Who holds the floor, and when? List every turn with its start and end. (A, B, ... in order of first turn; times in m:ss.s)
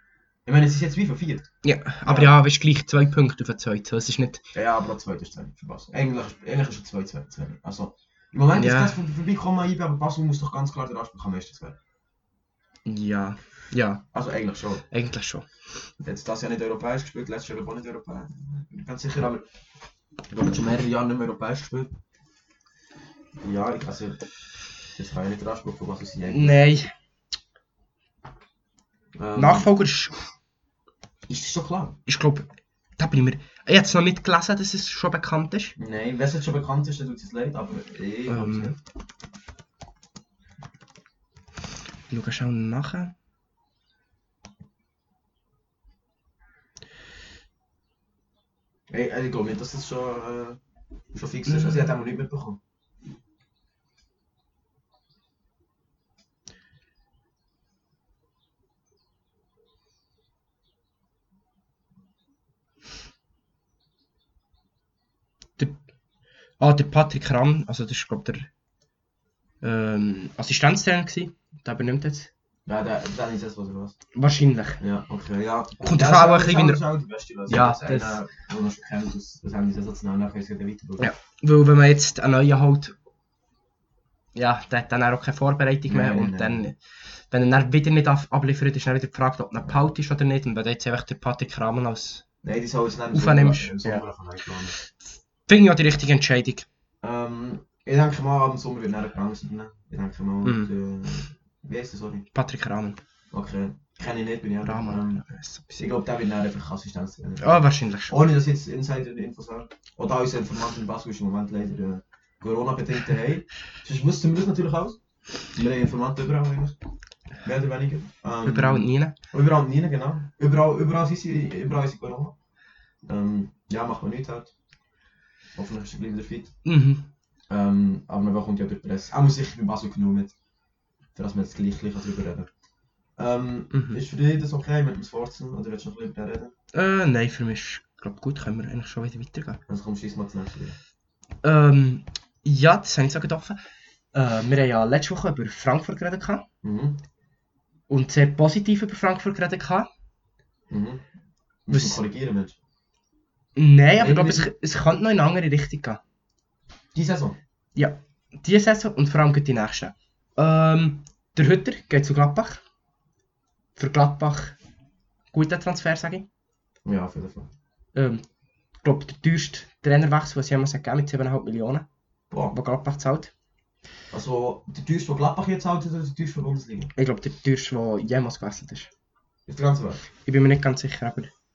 0:00.4-0:01.5 A
0:01.6-0:04.4 B
0:02.0-0:02.3 A
0:04.5-0:11.8 A
0:08.5-0:09.0 B
0:12.8-0:14.0 B
0:14.1-0:14.8 A
0:14.9-0:15.5 B
0:16.0-0:19.4 A
0:20.3-0:21.9 A
0:23.4-0:24.2 A
0:25.0-0:26.8 A
0:26.3-0:26.9 B
0:29.2-0:29.7 A
0:29.4-0:30.2 B
0:31.3-0:32.0 A
0:32.1-0:32.4 B
0:33.0-0:35.8 B
0:35.8-0:38.8 A
0:38.3-0:38.7 B
0:42.1-0:43.1 B
0:48.9-0:50.6 A
0:51.1-0:52.6 A
0:51.4-0:51.9 B
1:06.6-1:08.5 B
1:09.6-1:12.3 B
1:12.7-1:14.0 A
1:14.1-1:14.8 B
1:14.8-1:21.1 A
1:15.8-1:16.8 B
1:17.5-1:18.2 B
1:21.0-1:23.0 B
1:24.3-1:26.8 B
1:25.9-1:26.6 A
1:27.3-1:32.2 B
1:32.4-1:34.8 A
1:33.1-1:34.0 B
1:35.5-1:36.6 B
1:37.0-1:42.2 A
1:40.4-1:40.7 B
1:42.3-1:43.0 B
1:43.3-1:45.2 A
1:44.6-1:45.9 B
1:45.8-1:55.0 A
1:47.4-1:48.2 B
1:55.5-1:56.8 A
1:57.4-2:02.3 A
1:58.4-1:59.2 B
2:03.0-2:04.5 A
2:05.6-2:06.5 A
2:06.6-2:07.1 B
2:07.5-2:10.3 A
2:11.1-2:12.5 A
2:13.2-2:16.5 A
2:13.7-2:14.0 B
2:16.7-2:19.6 B
2:19.7-2:20.8 A
2:21.4-2:23.6 B
2:24.1-2:26.4 B
2:26.6-2:27.0 A
2:27.9-2:29.9 B
2:30.7-2:31.0 A
2:31.6-2:32.6 A
2:31.7-2:32.0 B
2:33.6-2:36.0 B
2:34.0-2:34.5 A
2:36.9-2:37.4 A
2:37.7-2:42.6 B
2:43.8-2:44.6 B
2:45.3-2:46.3 B
2:46.8-2:47.5 A
2:47.9-2:48.2 B
2:48.8-2:51.8 B
2:52.5-2:53.3 B
2:54.1-2:56.9 A
2:57.0-2:58.9 B
2:59.5-3:00.0 A
3:00.2-3:01.3 B